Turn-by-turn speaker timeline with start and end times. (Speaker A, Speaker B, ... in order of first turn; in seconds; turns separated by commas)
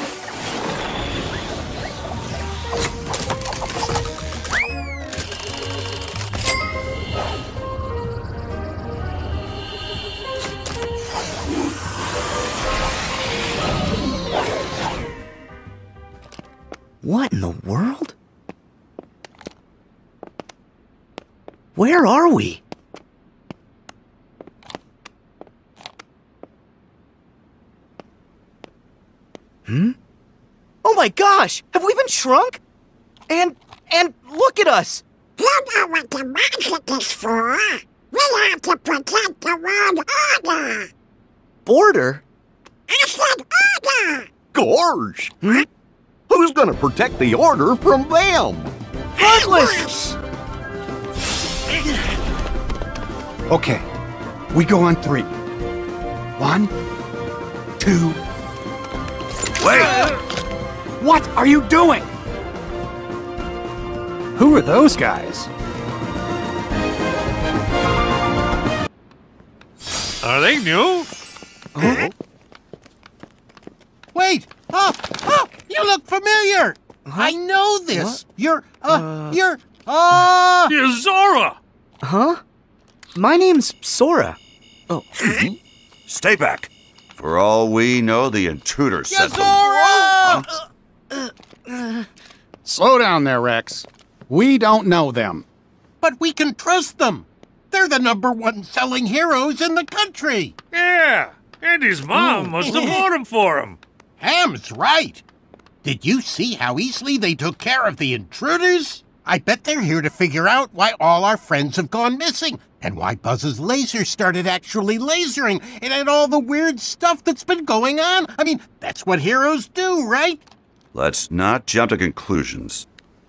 Speaker A: 17.0-18.1, Speaker A: 21.8-22.6, Speaker A: 29.7-29.9, Speaker A: 30.8-32.6, Speaker A: 33.3-35.0, Speaker B: 35.4-40.9, Speaker A: 41.6-42.2, Speaker B: 42.9-44.3, Speaker C: 44.5-45.4, Speaker C: 46.3-48.7, Speaker A: 49.2-49.9, Speaker B: 49.2-50.1, Speaker D: 53.5-53.9, Speaker D: 54.5-55.3, Speaker D: 56.4-56.7, Speaker D: 57.8-58.2, Speaker D: 61.0-62.1, Speaker D: 64.3-65.5, Speaker E: 70.2-71.1, Speaker A: 71.8-72.1, Speaker F: 74.1-80.7, Speaker A: 77.1-77.4, Speaker A: 77.9-78.2, Speaker A: 78.9-79.4, Speaker E: 80.7-81.6, Speaker A: 82.0-82.4, Speaker A: 83.1-84.4, Speaker A: 84.9-85.2, Speaker C: 85.2-85.6, Speaker G: 86.1-90.4, Speaker F: 89.1-90.4, Speaker A: 91.1-92.0, Speaker D: 92.6-95.5, Speaker F: 96.0-100.5, Speaker E: 100.7-103.8, Speaker D: 102.2-102.5, Speaker F: 102.6-103.0, Speaker F: 104.2-105.2, Speaker F: 105.8-120.4, Speaker G: 120.9-122.8